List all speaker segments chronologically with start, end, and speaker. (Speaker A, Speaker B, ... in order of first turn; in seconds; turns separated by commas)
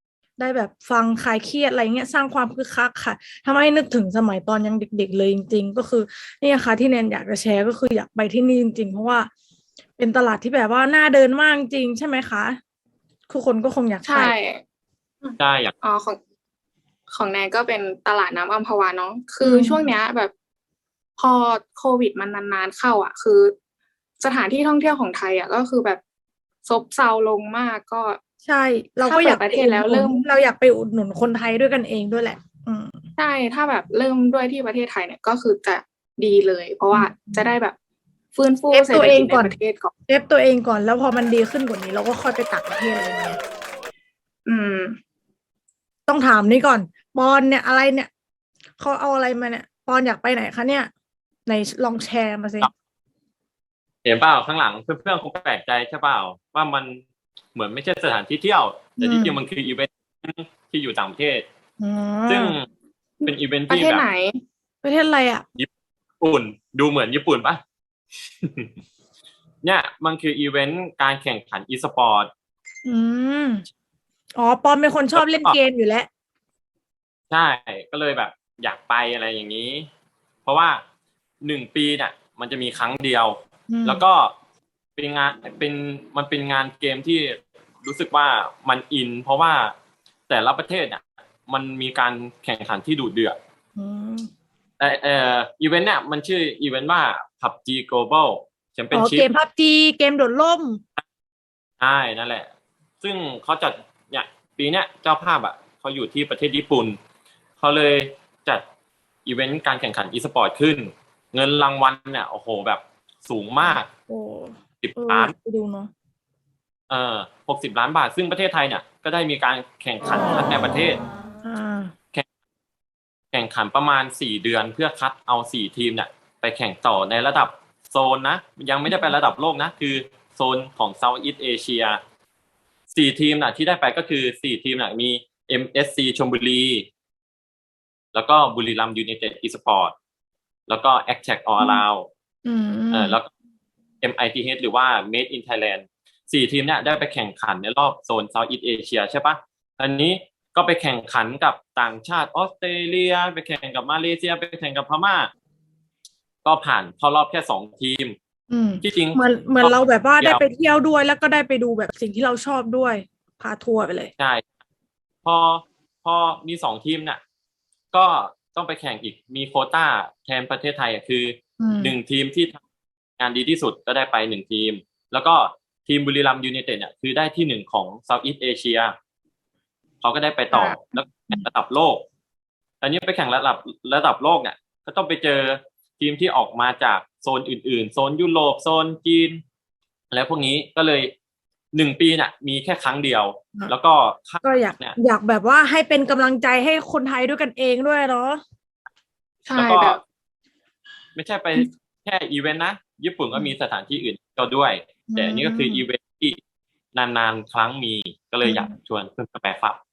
Speaker A: 0.4-9.3, Speaker A: 10.0-12.6, Speaker A: 13.3-14.3, Speaker B: 14.0-14.6, Speaker B: 15.2-16.2, Speaker C: 15.4-15.7, Speaker B: 17.1-20.3, Speaker A: 19.4-19.9, Speaker B: 21.2-23.5, Speaker B: 24.2-26.0, Speaker B: 26.6-28.2, Speaker A: 28.4-33.0, Speaker B: 29.0-30.2, Speaker B: 33.2-37.8, Speaker A: 36.9-37.5, Speaker B: 38.3-39.9, Speaker A: 38.7-39.5, Speaker A: 40.1-43.4, Speaker B: 44.5-45.0, Speaker A: 46.1-48.1, Speaker A: 48.8-50.9, Speaker A: 51.5-52.7, Speaker C: 54.0-61.5, Speaker A: 59.0-59.4, Speaker A: 61.8-62.5, Speaker C: 62.3-62.7, Speaker B: 63.2-64.4, Speaker C: 63.2-64.0, Speaker A: 64.8-65.5, Speaker C: 66.2-67.6, Speaker C: 68.4-68.7, Speaker C: 69.6-72.3, Speaker A: 72.8-73.7, Speaker A: 74.3-76.1, Speaker C: 75.1-75.5, Speaker C: 77.3-79.9, Speaker C: 80.4-80.8, Speaker C: 81.4-84.3, Speaker A: 83.7-84.0, Speaker C: 85.0-89.7, Speaker C: 90.3-93.4, Speaker A: 93.8-94.3, Speaker C: 94.8-99.3, Speaker A: 98.9-100.8, Speaker C: 101.8-107.0, Speaker C: 107.6-108.6, Speaker C: 109.2-113.9, Speaker A: 113.6-115.9, Speaker C: 114.8-115.3, Speaker C: 116.9-121.0, Speaker A: 121.4-121.9, Speaker C: 123.3-132.0, Speaker C: 132.9-136.9, Speaker C: 138.1-139.9, Speaker C: 140.7-142.1, Speaker A: 142.4-143.2, Speaker C: 142.9-143.3, Speaker C: 144.0-155.3, Speaker C: 156.4-158.2, Speaker A: 158.5-164.1, Speaker C: 158.8-160.4, Speaker C: 164.2-164.4, Speaker C: 165.2-167.2, Speaker C: 167.9-172.6, Speaker A: 171.6-171.9, Speaker C: 173.2-178.9, Speaker C: 180.0-182.0, Speaker C: 182.8-189.4, Speaker C: 190.1-191.1, Speaker C: 191.7-195.0, Speaker A: 194.4-198.4, Speaker B: 199.4-200.0, Speaker C: 199.5-200.0, Speaker C: 201.1-206.4, Speaker A: 205.1-205.8, Speaker C: 206.9-209.8, Speaker A: 208.4-208.7